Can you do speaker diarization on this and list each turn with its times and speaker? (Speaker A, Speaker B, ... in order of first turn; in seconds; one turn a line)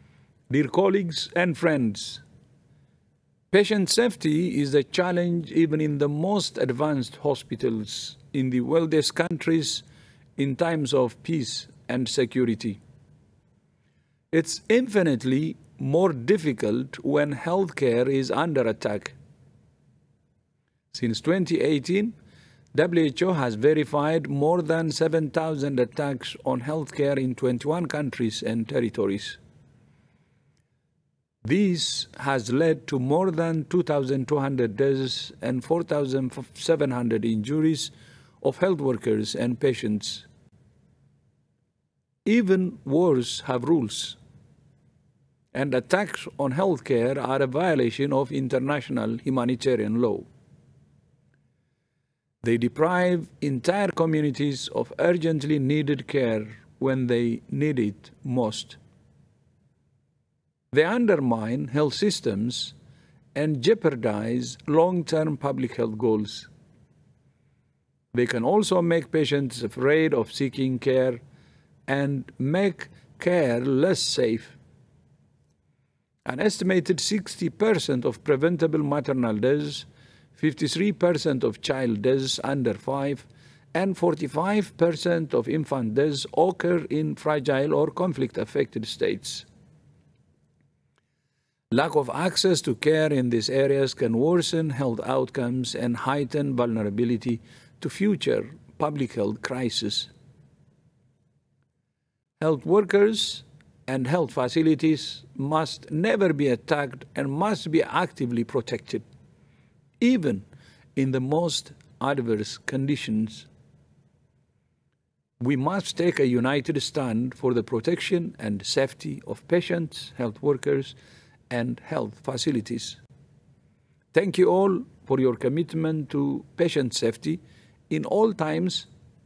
Speaker A: 0.5-2.2
Speaker A: 3.5-9.8
Speaker A: 10.4-12.8
Speaker A: 14.3-19.2
Speaker A: 20.9-22.1
Speaker A: 22.7-29.4
Speaker A: 31.4-40.3
Speaker A: 42.2-44.2
Speaker A: 45.5-50.3
Speaker A: 52.4-58.8
Speaker A: 60.7-62.8
Speaker A: 63.4-66.5
Speaker A: 68.1-71.2
Speaker A: 71.9-74.6
Speaker A: 76.2-89.5
Speaker A: 91.7-100.1
Speaker A: 102.4-109.0
Speaker A: 110.0-110.4
Speaker A: 111.0-113.5
Speaker A: 115.4-121.0
Speaker A: 121.5-123.0
Speaker A: 124.1-128.9